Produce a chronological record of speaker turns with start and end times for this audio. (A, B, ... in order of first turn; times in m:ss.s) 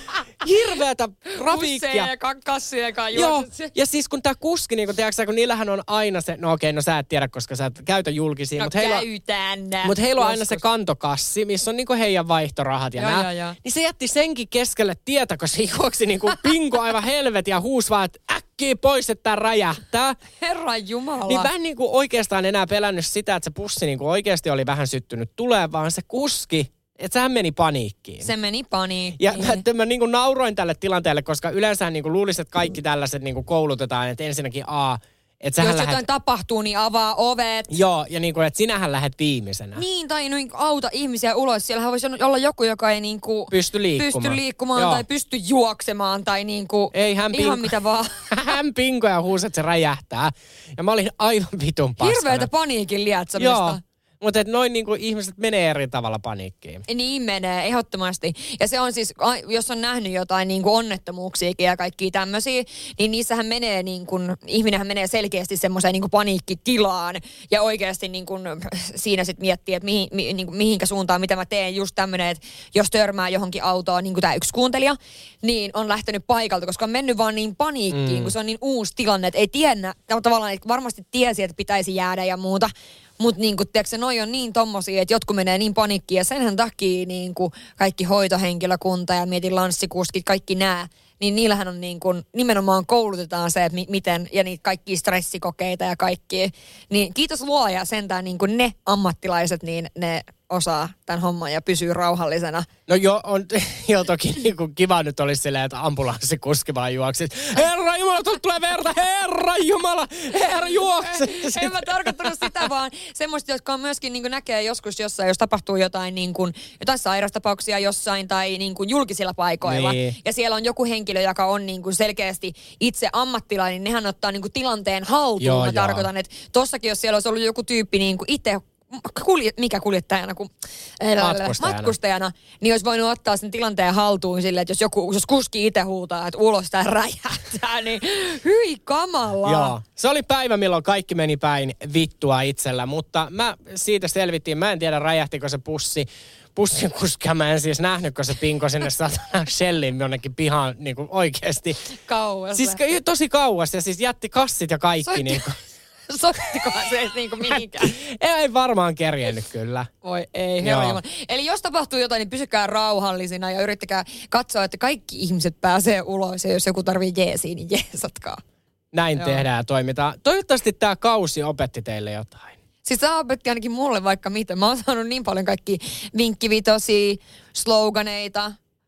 0:00.4-0:02.1 A
0:01.4-0:03.7 B
0:03.1-0:09.0 A
0:08.6-0:10.6 B
0:09.8-0:20.2 A
0:13.0-0:13.6 B
0:20.4-0:21.5 B
0:21.3-0:28.3 A
0:28.2-0:29.6 B
0:29.2-0:36.0 A
0:35.6-0:37.7 B
0:37.7-0:39.8 A
0:39.7-0:48.4 B
0:43.5-0:45.0 A
0:46.9-0:47.7 A
0:48.3-0:52.5 A
0:52.0-0:53.8 B
0:53.4-0:56.8 A
0:56.9-1:42.7 B
1:17.9-1:18.3 A
1:42.9-1:52.5 A
1:50.8-2:19.7 B
1:59.6-2:00.2 A
2:05.4-2:06.1 A
2:11.2-2:11.9 A
2:19.4-2:31.8 A
2:32.0-2:32.8 B
2:32.5-2:35.5 A
2:35.0-2:35.4 B
2:36.1-2:37.9 B
2:37.5-2:39.9 A
2:40.0-2:48.4 B
2:40.6-2:41.0 A
2:48.9-2:52.5 A
2:49.2-2:49.4 B
2:52.8-2:58.6 B